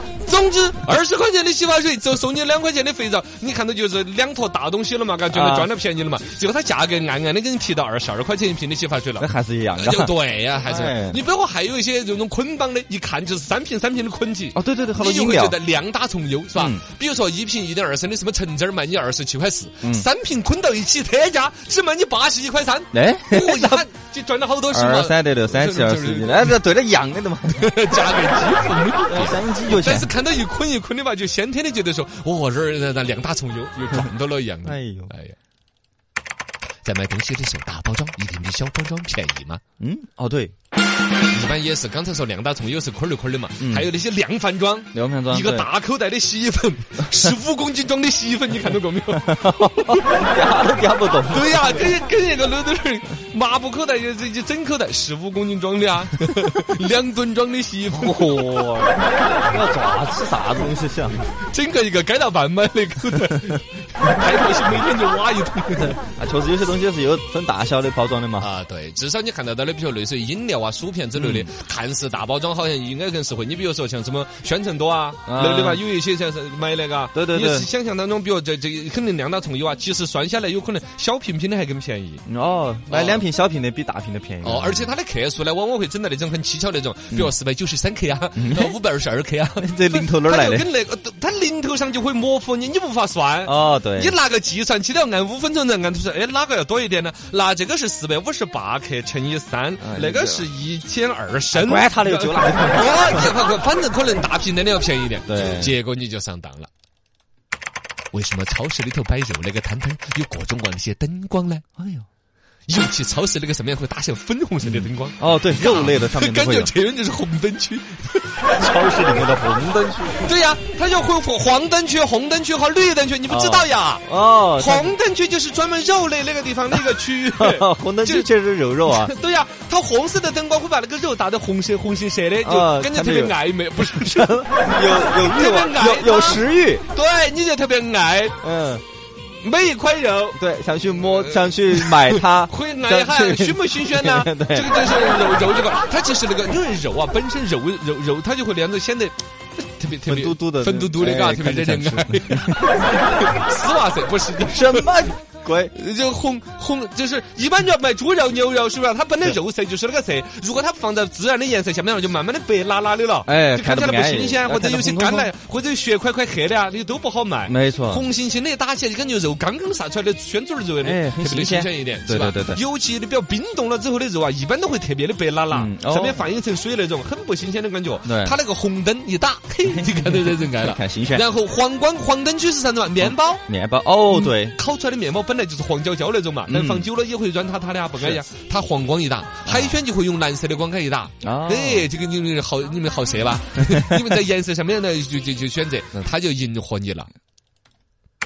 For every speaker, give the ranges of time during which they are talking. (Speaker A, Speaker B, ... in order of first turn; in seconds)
Speaker A: 0.2-26.6, 27.5-35.4, 36.8-39.6, 41.3-50.3, 51.3-58.9, 61.3-66.0, 68.4-82.2, 82.9-83.2, 84.4-106.7, 108.1-111.8, 112.7-118.7, 120.2-124.0, 124.6-128.3, 128.8-138.4, 139.4-140.4, 141.0-154.9, 155.7-183.4, 184.1-197.1
Speaker B: 5.3-5.7, 9.2-11.2, 14.5-15.6, 16.5-16.8, 19.8-20.1, 22.9-23.9, 24.7-27.8, 29.1-30.1, 34.6-35.1, 39.8-40.5, 43.6-43.9, 44.9-45.7, 47.0-47.3, 49.1-51.9, 57.9-61.2, 65.9-68.5, 71.1-71.5, 75.2-75.8, 77.1-77.7, 82.3-84.9, 88.3-88.8, 89.6-90.7, 93.4-94.2, 99.8-100.5, 101.5-103.3, 105.3-105.7, 111.8-112.0, 114.6-116.7, 118.5-120.3, 123.3-125.0, 127.4-129.1, 132.4-136.8, 138.4-138.8, 140.3-144.7, 150.0-152.9, 154.4-155.7, 163.2-165.3, 167.4-168.1, 170.8-172.6, 175.5-176.3, 178.0-178.4, 179.6-181.2, 183.0-184.6, 186.5-186.9, 188.0-188.2, 189.4-189.8, 191.2-191.9, 193.7-194.0